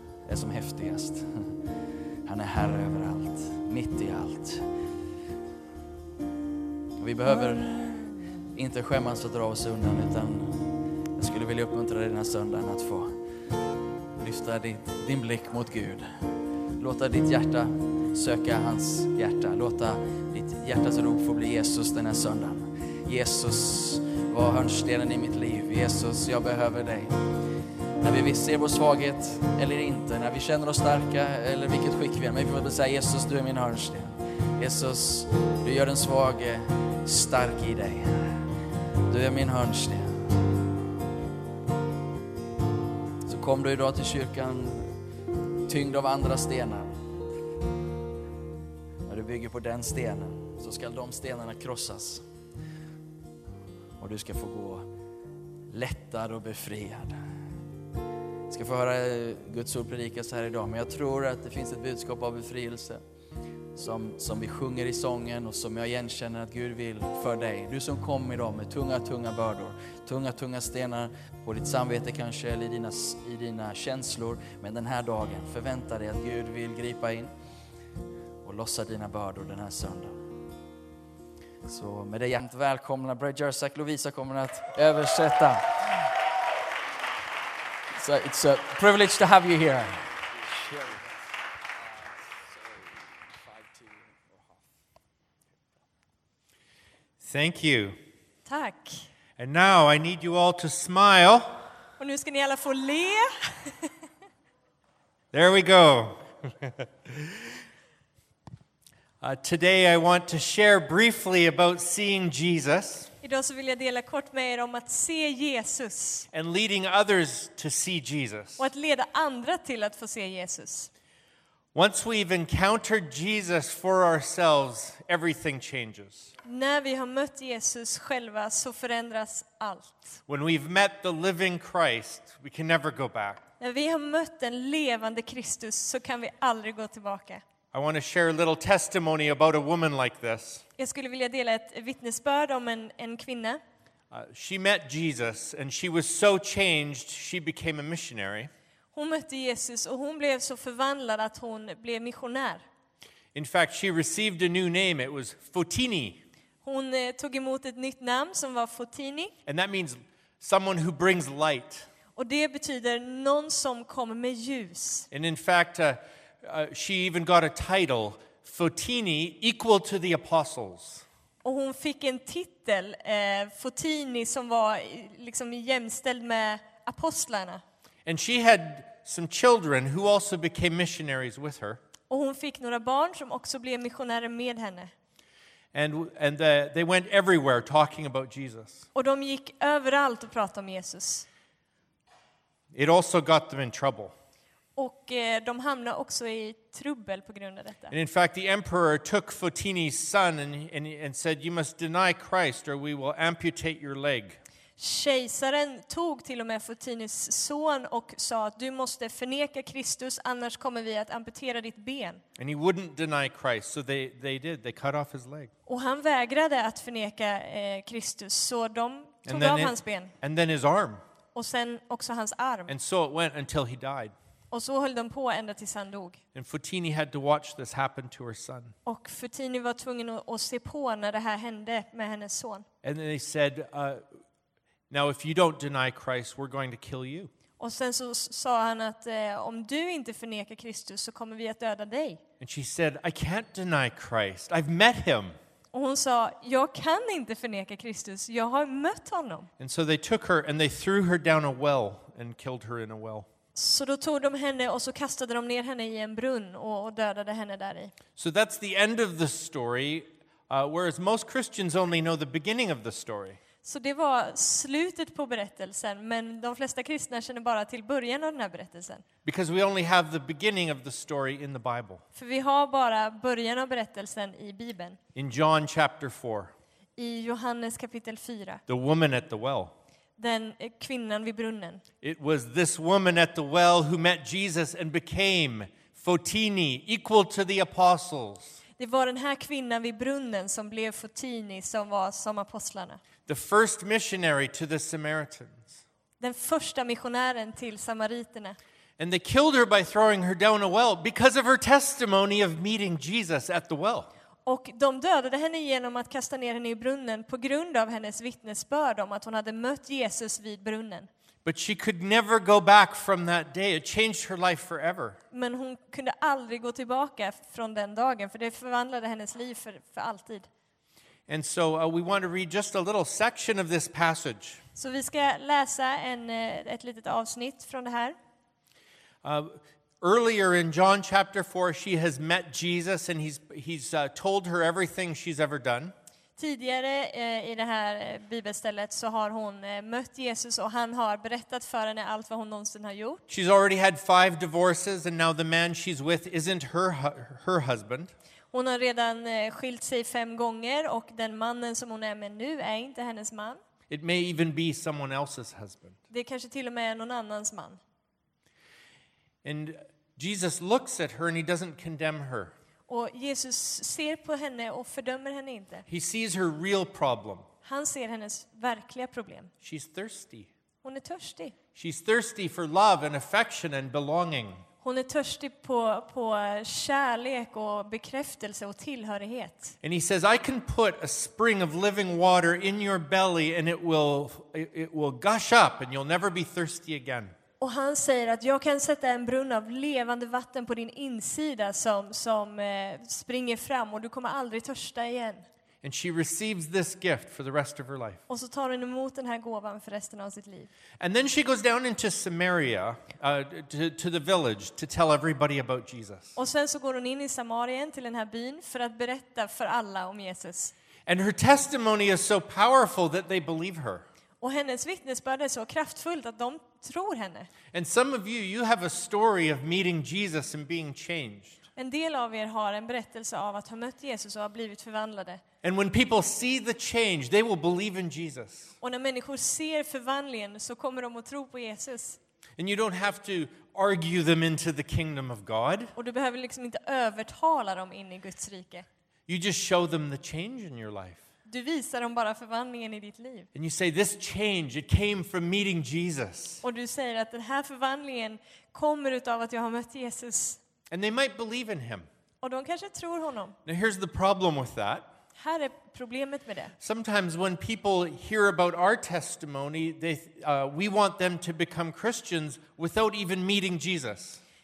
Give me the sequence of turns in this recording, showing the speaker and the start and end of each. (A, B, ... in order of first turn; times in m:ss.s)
0:00.2-0:01.7 A
0:02.2-0:04.6 A
0:07.0-0:13.2 A
0:14.2-0:27.2 A
0:28.0-0:38.5 A
0:39.1-0:40.4 A
0:43.2-0:45.0 A
0:45.7-0:47.1 A
0:49.0-0:52.2 A
0:54.0-0:54.9 A
0:55.7-0:57.2 A
0:58.5-1:03.0 A
1:03.8-1:17.3 A
1:18.4-1:20.3 A
1:21.6-1:26.0 A
1:27.9-1:31.0 A
1:37.2-1:38.0 B
1:38.5-1:39.1 C
1:39.4-1:41.5 B
1:42.0-1:43.9 C
1:45.3-1:47.4 B
1:49.2-1:53.1 B
1:53.2-1:56.2 C
1:56.3-1:58.7 B
1:58.6-2:00.9 C
2:01.7-2:06.3 B
2:06.4-2:10.0 C
2:10.3-2:13.4 B
2:13.6-2:17.4 C
2:17.7-2:20.6 B
2:20.8-2:23.6 C
2:24.1-2:28.5 B
2:28.9-2:32.6 C
2:33.3-2:36.2 B
2:36.6-2:39.3 C
2:39.5-2:41.9 B
2:42.2-2:45.1 C
2:45.1-2:51.0 B
2:51.4-2:57.6 C
2:58.0-3:01.8 B
3:02.1-3:04.9 C
3:05.7-3:08.9 B
3:09.0-3:11.3 C
3:12.7-3:14.1 B
3:14.8-3:17.9 C
3:17.9-3:24.4 B
3:24.8-3:32.2 C
3:32.4-3:35.5 B
3:35.7-3:40.1 C
3:39.3-3:41.0 B
3:41.3-3:42.7 C
3:42.7-3:44.1 B
3:44.5-3:46.2 C
3:46.3-3:48.7 B
3:48.9-3:52.7 C
3:52.8-3:54.0 B
3:54.9-3:57.3 B
3:57.6-4:02.2 C
4:02.4-4:05.4 B
4:05.7-4:09.5 C
4:09.6-4:13.3 B
4:13.5-4:17.9 C
4:18.2-4:23.4 B
4:23.6-4:29.0 C
4:29.2-4:32.0 B
4:32.1-4:35.0 C
4:35.1-4:36.5 B
4:37.0-4:38.6 C
4:38.7-4:39.7 B
4:40.2-4:41.8 C
4:42.0-4:48.6 B
4:48.8-4:53.0 C
4:53.3-4:55.8 B
4:56.2-4:58.6 C
4:59.0-5:04.1 B
5:04.4-5:11.1 C
5:11.4-5:15.2 B
5:15.3-5:20.5 C
5:21.3-5:24.6 B
5:24.8-5:28.2 C
5:29.2-5:35.9 B
5:36.4-5:43.2 C
5:43.3-5:48.1 B
5:48.5-5:53.6 C
5:53.9-5:56.0 B
5:56.1-5:57.8 C
5:59.4-6:02.5 B
6:02.9-6:05.8 C
6:05.9-6:07.4 B
6:07.6-6:09.5 C
6:09.6-6:10.5 B
6:10.8-6:11.6 C
6:11.8-6:14.6 B
6:14.8-6:19.8 C
6:19.8-6:27.3 B
6:27.6-6:35.4 C
6:35.8-6:38.2 B
6:38.3-6:40.7 C
6:41.0-6:46.3 B
6:46.4-6:50.7 C
6:51.1-6:54.0 B
6:54.4-6:57.5 C
6:57.7-7:01.6 B
7:01.8-7:05.4 C
7:05.6-7:08.7 B
7:08.8-7:12.2 C
7:12.6-7:15.9 B
7:15.9-7:18.8 C
7:19.3-7:21.2 B
7:21.4-7:23.5 C
7:23.5-7:26.6 B
7:26.6-7:30.6 C
7:30.9-7:32.1 B
7:32.4-7:33.6 C
7:33.6-7:35.1 B
7:35.4-7:36.7 C
7:36.8-7:44.4 B